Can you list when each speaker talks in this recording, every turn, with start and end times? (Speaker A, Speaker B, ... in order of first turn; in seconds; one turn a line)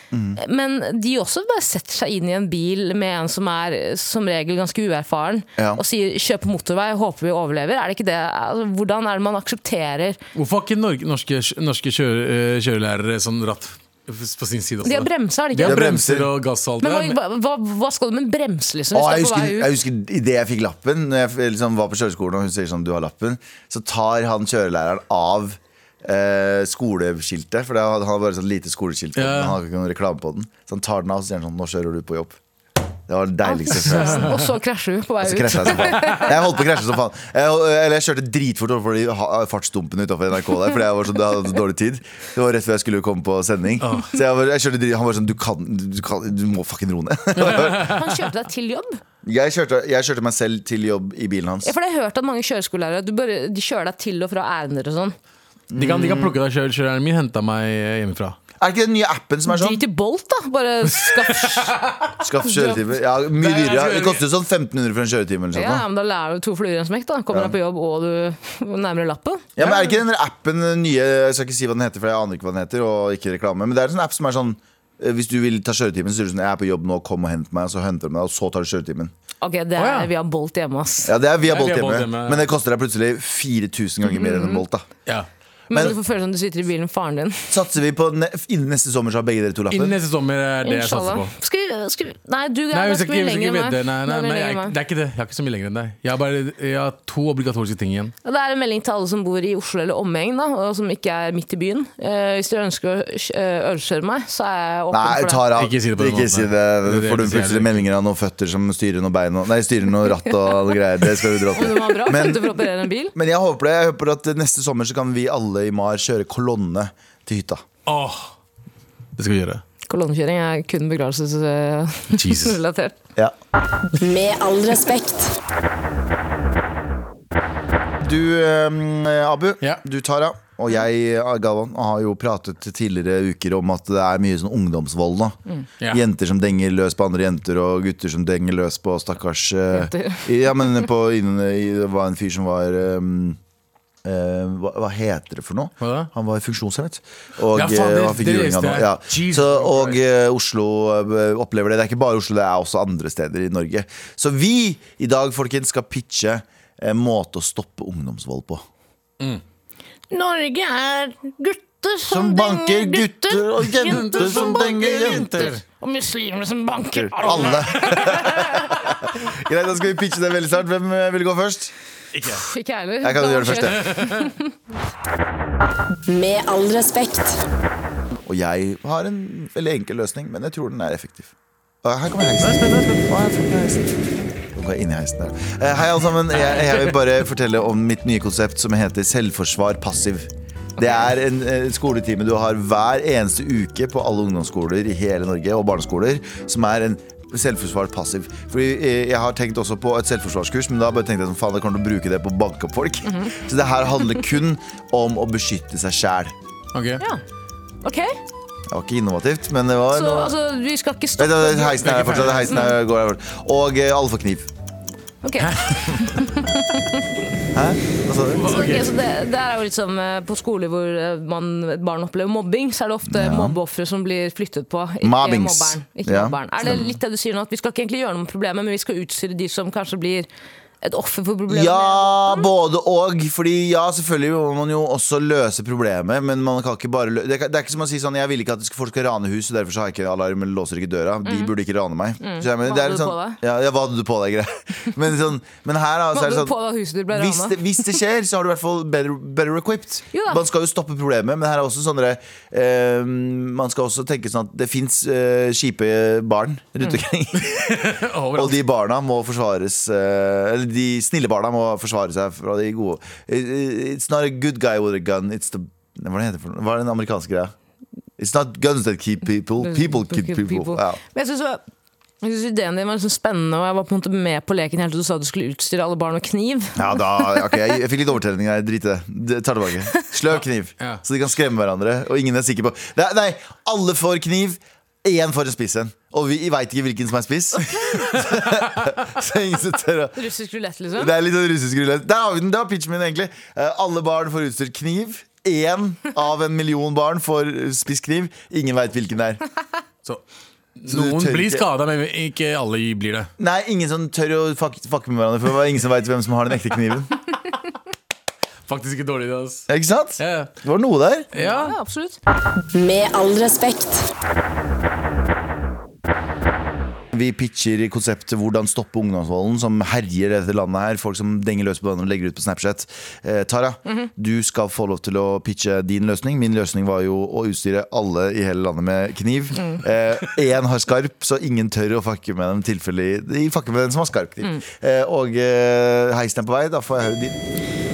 Speaker A: 0.1-0.4
Speaker B: 0.3-10.2
Speaker C: 10.3-17.1
Speaker B: 14.8-15.9
Speaker A: 15.6-16.3
Speaker B: 16.8-19.7
Speaker A: 18.9-32.4
Speaker C: 29.1-29.6
Speaker A: 33.1-34.4
Speaker B: 33.4-36.3
Speaker C: 33.7-34.5
Speaker A: 35.2-48.0
Speaker C: 35.8-36.3
Speaker C: 43.8-44.2
Speaker C: 47.4-48.1
Speaker B: 47.5-49.0
Speaker A: 49.2-51.7
Speaker B: 51.6-55.1
Speaker A: 55.7-56.4
Speaker C: 55.8-58.4
Speaker A: 58.6-59.8
Speaker B: 59.5-61.7
Speaker C: 61.0-62.7
Speaker A: 62.2-65.8
Speaker C: 63.4-64.2
Speaker B: 65.5-69.5
Speaker A: 67.3-67.5
Speaker A: 69.5-79.1
Speaker C: 69.6-70.0
Speaker B: 79.4-81.1
Speaker C: 79.8-80.1
Speaker A: 81.0-84.9
Speaker C: 81.5-82.5
Speaker B: 84.0-84.6
Speaker B: 85.7-87.5
Speaker A: 85.7-86.0
Speaker A: 87.5-89.9
Speaker C: 89.7-91.3
Speaker B: 90.6-94.7
Speaker C: 92.7-98.1
Speaker B: 98.2-105.5
Speaker A: 104.9-117.6
Speaker C: 105.5-107.8
Speaker B: 111.5-113.1
Speaker C: 117.8-118.3
Speaker C: 119.2-119.6
Speaker B: 119.8-122.9
Speaker C: 122.1-122.6
Speaker D: 123.9-125.3
Speaker A: 128.0-135.4
Speaker C: 135.8-136.0
Speaker A: 135.9-143.4
Speaker B: 139.7-140.6
Speaker A: 144.0-158.6
Speaker C: 145.8-146.1
Speaker C: 147.5-150.0
Speaker B: 160.1-168.7
Speaker A: 162.1-165.5
Speaker C: 163.8-165.6
Speaker A: 166.9-171.7
Speaker C: 167.2-168.9
Speaker C: 172.1-172.4
Speaker B: 172.3-174.5
Speaker A: 173.0-173.8
Speaker C: 173.7-174.3
Speaker D: 176.1-177.4
Speaker A: 178.2-181.3
Speaker A: 181.8-183.9
Speaker C: 182.4-183.7
Speaker A: 184.5-206.3
Speaker C: 186.4-186.9
Speaker B: 203.0-203.3
Speaker C: 206.7-207.0
Speaker B: 207.8-208.2
Speaker A: 208.7-210.3
Speaker B: 209.9-212.7
Speaker A: 211.2-214.5
Speaker C: 211.8-212.7
Speaker B: 215.2-217.1
Speaker C: 215.4-216.2
Speaker A: 217.5-218.5
Speaker C: 218.3-218.9
Speaker B: 218.4-230.3
Speaker A: 223.1-223.6
Speaker A: 225.0-226.9
Speaker B: 230.8-232.5
Speaker A: 231.5-246.5
Speaker B: 241.2-241.5
Speaker B: 242.2-243.4
Speaker B: 246.1-247.6
Speaker A: 247.1-257.8
Speaker B: 250.1-250.4
Speaker C: 257.4-258.6
Speaker A: 258.3-267.5
Speaker A: 268.2-271.0
Speaker B: 269.6-271.6
Speaker B: 272.2-277.4
Speaker A: 276.8-290.2
Speaker B: 290.1-291.1
Speaker A: 290.9-299.4
Speaker C: 300.8-303.3
Speaker A: 300.9-301.6
Speaker A: 303.4-307.1
Speaker C: 308.7-310.5
Speaker A: 309.7-311.3
Speaker C: 311.3-311.7
Speaker B: 311.3-312.2
Speaker D: 312.7-314.1
Speaker A: 317.1-337.4
Speaker B: 329.6-329.8